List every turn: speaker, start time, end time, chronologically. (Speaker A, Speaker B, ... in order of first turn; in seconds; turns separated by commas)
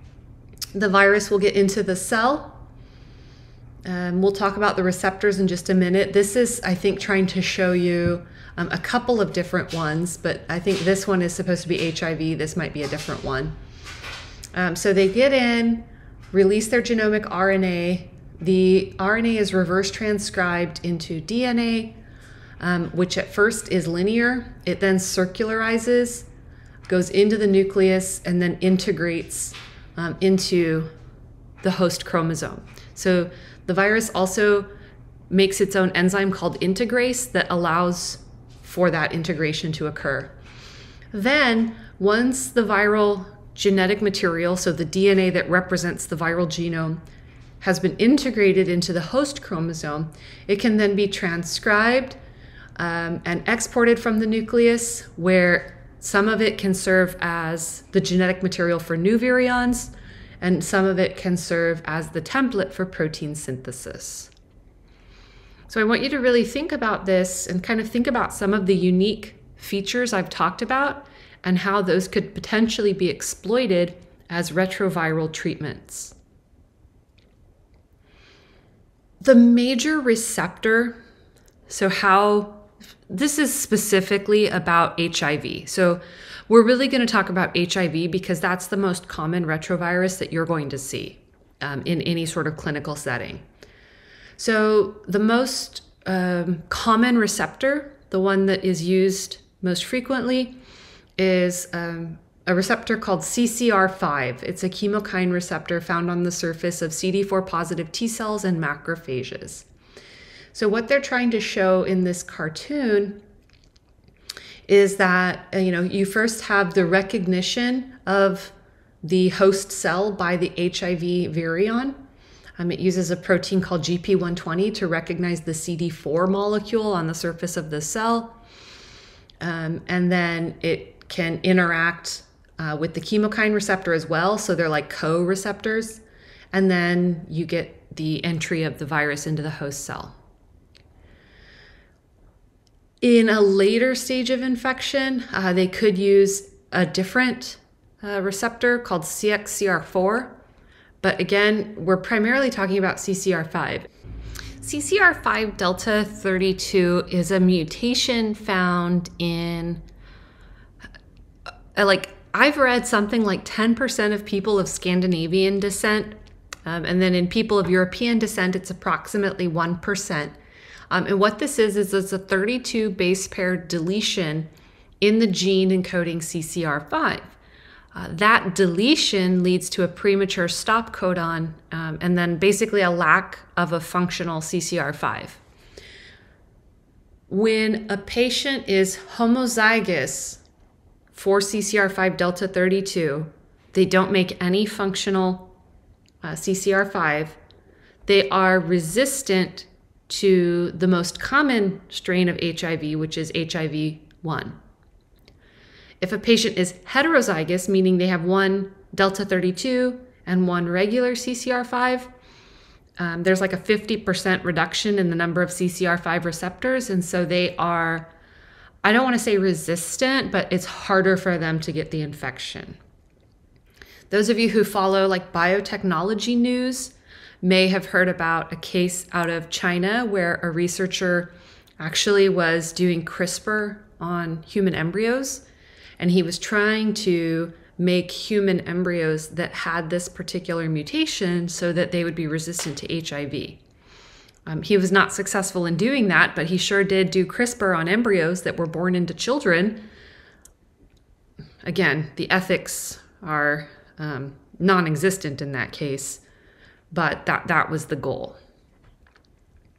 Speaker A: 0.7-2.6, Speaker A: 3.8-13.5, Speaker A: 14.5-21.9, Speaker A: 22.6-26.3, Speaker A: 26.9-30.9, Speaker A: 31.6-34.7, Speaker A: 35.3-40.3, Speaker A: 41.1-47.0, Speaker A: 47.6-52.2, Speaker A: 52.8-64.3, Speaker A: 65.7-76.1, Speaker A: 79.2-81.0, Speaker A: 81.7-93.4, Speaker A: 94.4-100.5, Speaker A: 101.2-109.7, Speaker A: 110.5-113.2, Speaker A: 114.7-122.0, Speaker A: 122.6-128.4, Speaker A: 129.4-136.0, Speaker A: 136.5-140.1, Speaker A: 143.0-150.3, Speaker A: 151.0-153.9, Speaker A: 154.6-159.8, Speaker A: 161.7-170.3, Speaker A: 170.9-174.5, Speaker A: 175.0-177.3, Speaker A: 177.9-185.4, Speaker A: 187.3-190.4, Speaker A: 191.1-195.5, Speaker A: 196.2-197.4, Speaker A: 198.1-204.6, Speaker A: 206.0-212.1, Speaker A: 213.0-218.1, Speaker A: 218.8-222.8, Speaker A: 224.1-235.4, Speaker A: 236.0-243.6, Speaker A: 244.4-249.8, Speaker A: 251.6-256.2, Speaker A: 256.9-258.4